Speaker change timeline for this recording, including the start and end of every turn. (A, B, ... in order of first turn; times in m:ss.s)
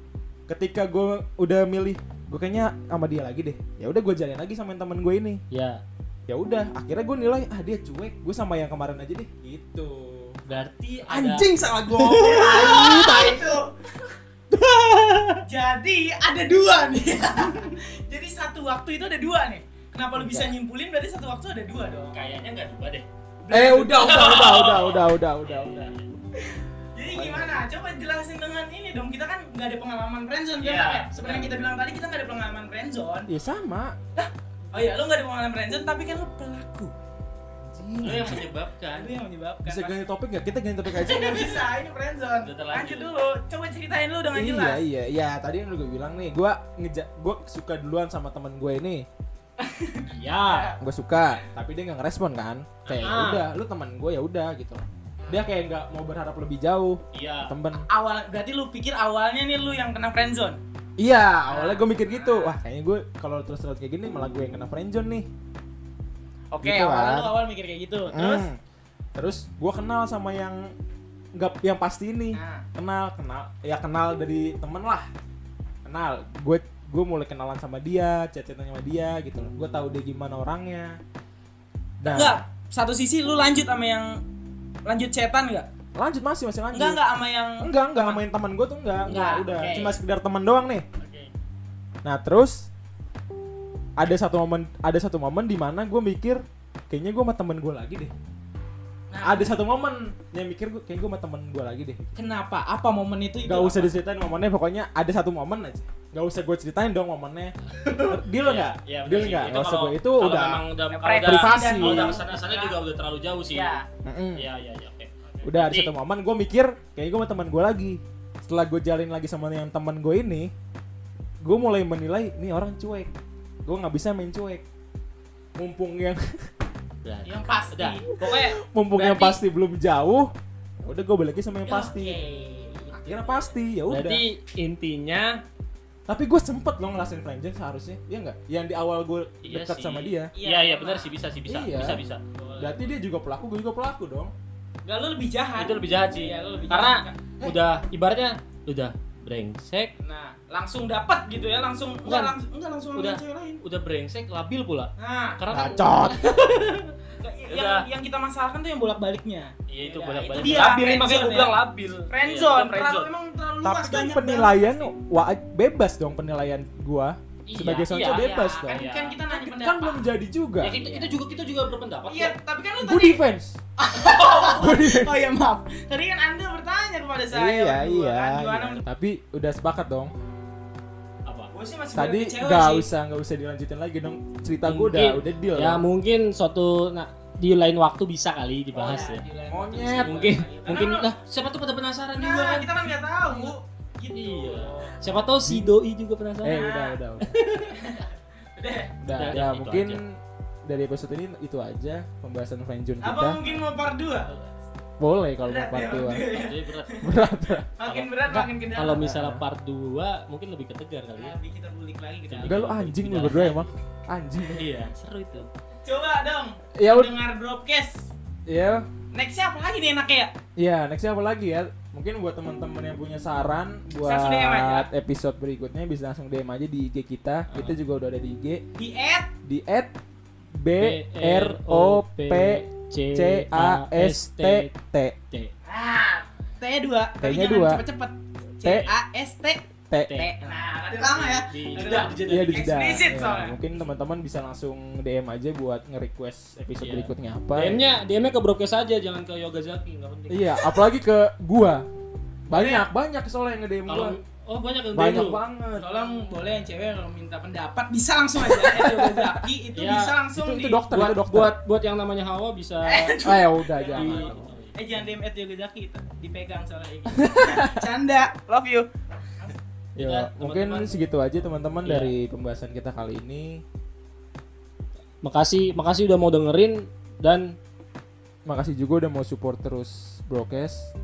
0:00.5-0:05.4 A
0:05.5-0:05.8 B
0:06.3-0:10.4 A
0:10.5-0:12.7 B
0:11.1-0:13.5 A
0:12.0-0:13.7 C
0:14.5-0:15.4 A
0:15.4-0:22.2 C
0:20.2-0:20.5 A
0:22.1-0:23.0 B
0:23.4-0:24.8 C
0:23.5-0:25.9 A
0:23.9-0:26.0 B
0:26.4-0:33.3 C
0:27.1-0:27.6 A
0:30.6-0:31.5 B
0:33.3-0:34.0 A
0:34.2-0:36.9 C
0:37.6-0:38.4 A
0:38.0-0:39.1 B
0:38.9-0:40.0 C
0:39.6-0:41.7 A
0:40.9-0:44.8 C
0:42.4-0:43.1 B
0:44.3-0:49.0 A
0:49.6-0:50.8 C
0:50.0-0:50.7 B
0:50.8-0:57.8 A
0:52.8-0:53.4 B
0:53.0-0:53.4 C
0:57.1-0:57.5 B
0:57.8-1:00.6 C
1:01.0-1:05.3 A
1:01.5-1:02.6 C
1:06.5-1:08.5 C
1:06.6-1:07.3 A
1:08.1-1:08.6 A
1:09.1-1:10.7 A
1:11.4-1:15.1 A
1:12.3-1:12.6 C
1:15.8-1:21.0 A
1:22.0-1:22.4 A
1:22.0-1:24.2 C
1:24.8-1:25.7 C
1:26.0-1:27.0 A
1:26.7-1:28.2 C
1:27.6-1:30.8 A
1:29.0-1:29.8 C
1:29.1-1:30.0 B
1:31.0-1:31.3 B
1:32.0-1:32.7 A
1:34.0-1:38.1 A
1:39.1-1:39.5 C
1:39.2-1:42.1 A
1:42.2-1:43.9 C
1:43.4-1:50.6 A
1:48.3-1:53.8 B
1:50.9-1:52.8 C
1:51.2-1:52.2 A
1:53.5-1:53.8 C
1:54.0-1:54.5 A
1:54.4-1:55.9 B
1:55.4-2:00.5 A
2:01.4-2:03.1 A
2:03.6-2:04.6 A
2:05.6-2:06.3 A
2:07.0-2:09.4 B
2:07.2-2:08.2 C
2:08.2-2:10.3 A
2:10.8-2:12.2 A
2:11.6-2:13.5 C
2:12.9-2:14.2 A
2:13.9-2:15.4 B
2:16.1-2:20.3 A
2:19.4-2:22.2 B
2:20.4-2:21.2 C
2:21.4-2:22.0 A
2:22.3-2:22.9 C
2:22.6-2:24.3 A
2:24.8-2:27.5 C
2:25.6-2:29.9 B
2:30.0-2:33.6 C
2:32.0-2:32.3 B
2:32.9-2:36.9 B
2:35.0-2:35.7 C
2:35.5-2:36.6 A
2:37.2-2:44.9 C
2:37.5-2:37.8 B
2:39.7-2:43.1 B
2:43.6-2:50.7 A
2:47.5-2:49.2 B
2:47.9-2:50.0 C
2:50.6-2:52.3 B
2:50.6-2:51.2 C
2:52.1-2:53.2 C
2:52.8-2:53.6 A
2:53.8-2:58.8 C
2:54.4-2:55.2 A
2:57.3-3:00.1 A
3:01.2-3:01.5 B
3:01.5-3:02.9 C
3:01.9-3:05.8 A
3:04.6-3:09.2 B
3:08.7-3:11.1 C
3:08.8-3:10.4 A
3:10.0-3:13.5 B
3:12.1-3:15.0 C
3:14.1-3:16.7 B
3:15.4-3:15.7 A
3:16.4-3:17.3 A
3:16.5-3:17.0 C
3:17.2-3:17.8 B
3:17.7-3:18.9 C
3:19.0-3:23.4 A
3:19.1-3:20.0 B
3:23.0-3:24.4 C
3:25.0-3:26.3 A
3:25.4-3:27.1 C
3:26.3-3:27.0 B
3:27.0-3:27.7 A
3:27.8-3:29.1 C
3:27.8-3:28.1 B
3:28.3-3:29.4 A
3:28.7-3:31.3 B
3:31.2-3:32.6 C
3:32.3-3:33.6 B
3:32.4-3:34.8 A
3:34.5-3:35.5 B
3:35.8-3:38.1 C
3:36.8-3:37.1 A
3:38.5-3:38.9 A
3:39.1-3:40.3 C
3:40.6-3:48.6 A
3:44.0-3:44.9 C
3:47.5-3:47.8 B
3:48.8-3:49.3 C
3:49.4-3:49.9 A
3:50.5-3:55.2 A
3:50.8-3:54.7 B
3:55.6-4:03.6 C
3:57.2-3:57.8 A
3:58.6-3:58.9 A
3:59.9-4:00.2 A
4:00.0-4:03.0 B
4:02.2-4:07.8 A
4:06.8-4:10.6 B
4:10.3-4:11.9 A
4:12.5-4:14.2 A
4:12.5-4:12.9 C
4:13.9-4:15.4 B
4:14.9-4:15.9 A
4:15.7-4:20.8 C
4:18.4-4:19.4 A
4:19.7-4:20.2 B
4:20.4-4:21.5 A
4:20.9-4:23.2 B
4:22.8-4:28.9 C
4:23.2-4:24.5 A
4:23.9-4:24.7 B
4:27.1-4:27.8 A
4:30.0-4:33.6 A
4:30.0-4:30.9 B
4:31.8-4:32.1 B
4:35.2-4:37.6 B
4:38.4-4:40.9 A